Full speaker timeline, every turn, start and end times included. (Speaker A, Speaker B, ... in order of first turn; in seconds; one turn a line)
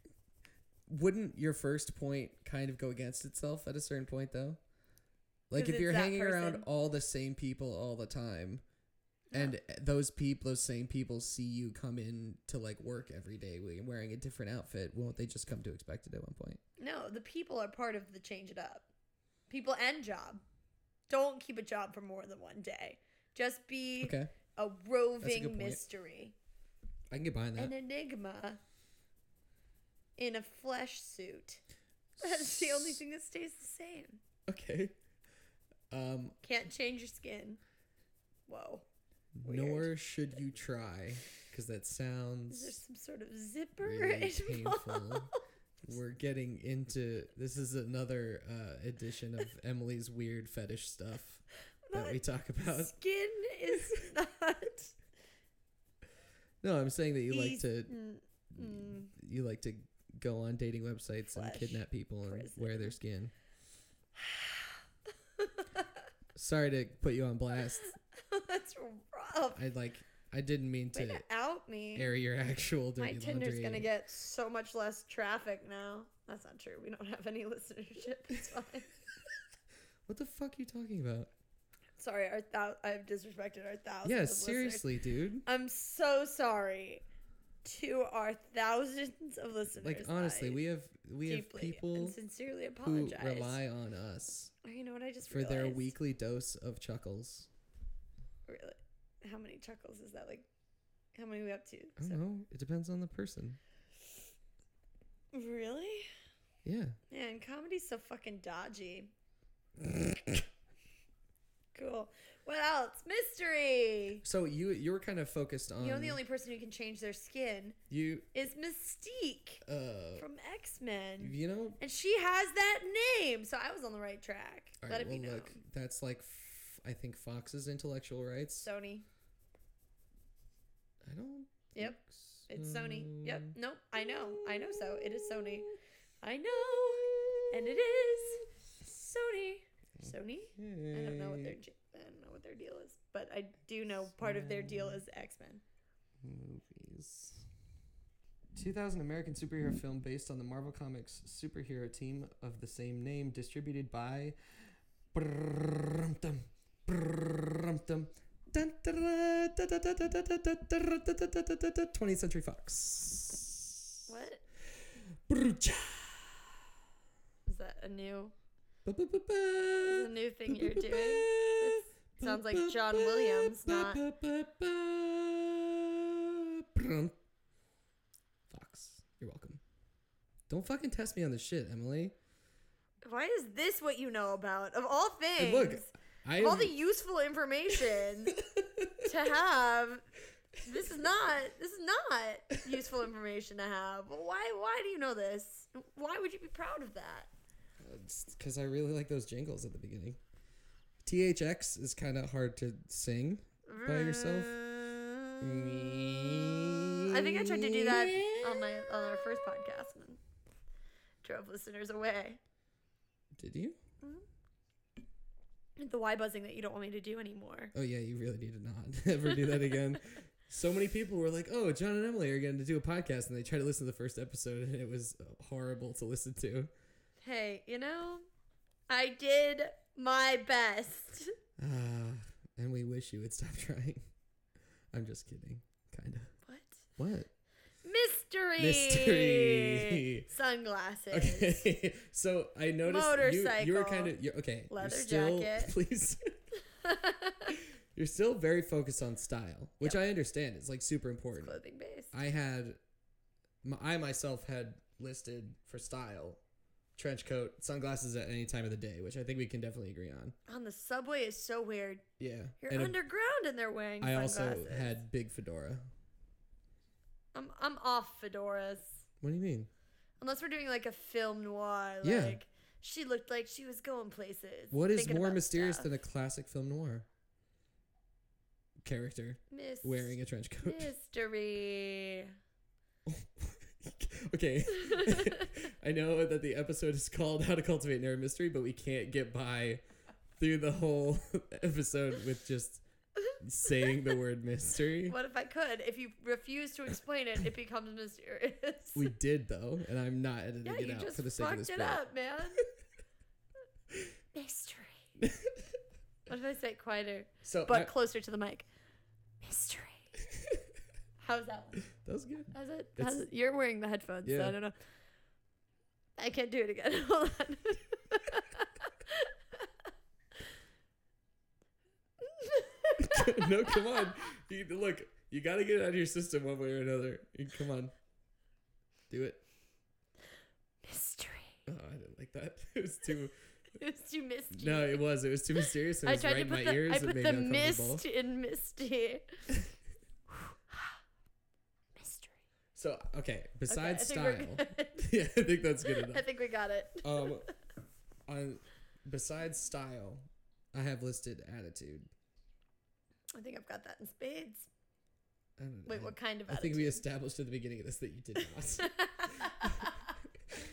Speaker A: 0.9-4.6
Speaker A: 5.5-8.6
Speaker B: 5.5-6.7
Speaker A: 9.3-16.6
Speaker B: 16.8-18.9
Speaker B: 19.5-20.4
Speaker B: 21.1-26.3
Speaker A: 24.0-24.3
Speaker A: 25.2-25.8
Speaker A: 27.1-27.7
Speaker B: 27.6-28.6
Speaker B: 30.2-31.6
Speaker B: 32.2-34.2
Speaker A: 32.2-33.0
Speaker A: 34.5-34.9
Speaker A: 35.9-36.4
Speaker B: 36.4-37.6
Speaker B: 38.5-38.9
Speaker A: 39.4-42.8
Speaker B: 39.4-39.9
Speaker B: 42.5-45.4
Speaker A: 43.8-45.3
Speaker A: 45.8-52.9
Speaker B: 51.9-54.9
Speaker A: 56.6-57.9
Speaker B: 57.3-59.1
Speaker A: 58.5-63.3
Speaker B: 61.3-63.0
Speaker B: 64.2-64.8
Speaker B: 65.4-65.8
Speaker A: 66.3-67.9
Speaker B: 68.1-69.6
Speaker A: 69.5-71.2
Speaker B: 70.9-72.1
Speaker A: 71.9-73.9
Speaker B: 73.0-78.9
Speaker A: 80.0-81.3
Speaker B: 82.0-84.8
Speaker A: 84.0-85.4
Speaker B: 85.5-87.0
Speaker B: 87.6-90.6
Speaker A: 89.7-92.2
Speaker B: 91.2-93.6
Speaker A: 92.8-94.5
Speaker B: 94.6-95.9
Speaker A: 95.2-97.5
Speaker B: 98.5-100.5
Speaker B: 101.1-102.2
Speaker A: 102.0-103.6
Speaker B: 105.3-106.1
Speaker A: 106.6-107.0
Speaker B: 107.1-109.1
Speaker A: 109.8-110.4
Speaker B: 111.7-114.2
Speaker A: 114.2-116.2
Speaker B: 115.8-117.8
Speaker A: 117.9-118.3
Speaker B: 118.3-119.6
Speaker A: 119.6-120.2
Speaker B: 120.2-125.6
Speaker A: 121.2-121.8
Speaker A: 124.8-128.7
Speaker B: 128.6-129.1
Speaker A: 131.0-135.8
Speaker B: 132.5-145.6
Speaker A: 136.6-138.3
Speaker A: 140.0-141.6
Speaker A: 144.1-145.0
Speaker A: 146.2-147.4
Speaker A: 148.5-154.4
Speaker A: 155.1-163.9
Speaker B: 164.1-164.4
Speaker A: 164.7-166.6
Speaker B: 167.4-168.3
Speaker A: 168.8-177.2
Speaker B: 169.8-174.0
Speaker A: 178.5-179.6
Speaker A: 180.5-182.1
Speaker B: 183.0-188.4
Speaker A: 185.4-186.7
Speaker A: 188.4-189.1
Speaker B: 189.0-190.0
Speaker B: 190.6-197.3
Speaker A: 197.8-200.2
Speaker A: 201.0-204.6
Speaker B: 203.7-205.8
Speaker A: 205.4-209.3
Speaker B: 207.0-210.2
Speaker B: 211.2-212.4
Speaker A: 213.3-213.8
Speaker B: 215.8-217.7
Speaker A: 217.7-226.7
Speaker B: 219.3-219.7
Speaker B: 227.2-228.2
Speaker B: 228.9-231.3
Speaker A: 231.6-234.0
Speaker A: 234.9-236.3
Speaker B: 236.4-236.9
Speaker A: 237.0-237.3
Speaker B: 237.8-241.7
Speaker A: 238.6-240.3
Speaker A: 241.1-246.3
Speaker B: 242.8-244.2
Speaker B: 244.7-245.7
Speaker B: 246.7-247.6
Speaker A: 247.5-251.6
Speaker B: 251.4-252.1
Speaker A: 252.1-252.8
Speaker A: 253.6-256.4
Speaker A: 256.9-260.4
Speaker B: 260.5-262.0
Speaker A: 262.2-263.0
Speaker B: 262.6-265.0
Speaker A: 264.0-265.9
Speaker B: 267.3-269.1
Speaker A: 269.2-269.7
Speaker B: 270.2-275.9
Speaker A: 272.0-272.4
Speaker A: 274.7-277.1
Speaker A: 278.8-280.9
Speaker B: 279.5-282.3
Speaker A: 283.1-289.8
Speaker B: 284.9-285.4
Speaker A: 290.4-292.8
Speaker B: 293.2-293.8
Speaker A: 293.4-295.2
Speaker B: 295.1-299.1
Speaker A: 298.9-302.0
Speaker B: 300.6-302.7
Speaker B: 304.3-305.1
Speaker A: 305.2-305.6
Speaker B: 306.3-308.7
Speaker A: 307.4-307.9
Speaker B: 309.4-310.1
Speaker B: 311.2-311.8
Speaker A: 311.9-313.2
Speaker B: 312.5-314.7
Speaker A: 314.2-314.6
Speaker B: 316.2-319.6
Speaker B: 322.2-324.0
Speaker A: 323.0-327.9
Speaker A: 329.1-329.4
Speaker B: 330.8-331.6
Speaker A: 331.7-333.4
Speaker B: 333.7-335.0
Speaker A: 334.5-338.0
Speaker B: 335.6-339.5
Speaker B: 341.9-342.4
Speaker A: 342.7-346.2
Speaker B: 343.7-345.1
Speaker B: 346.0-347.4
Speaker A: 347.0-347.5
Speaker A: 348.3-352.1
Speaker B: 353.3-354.7
Speaker A: 355.6-359.9
Speaker B: 355.9-357.0
Speaker B: 358.8-360.1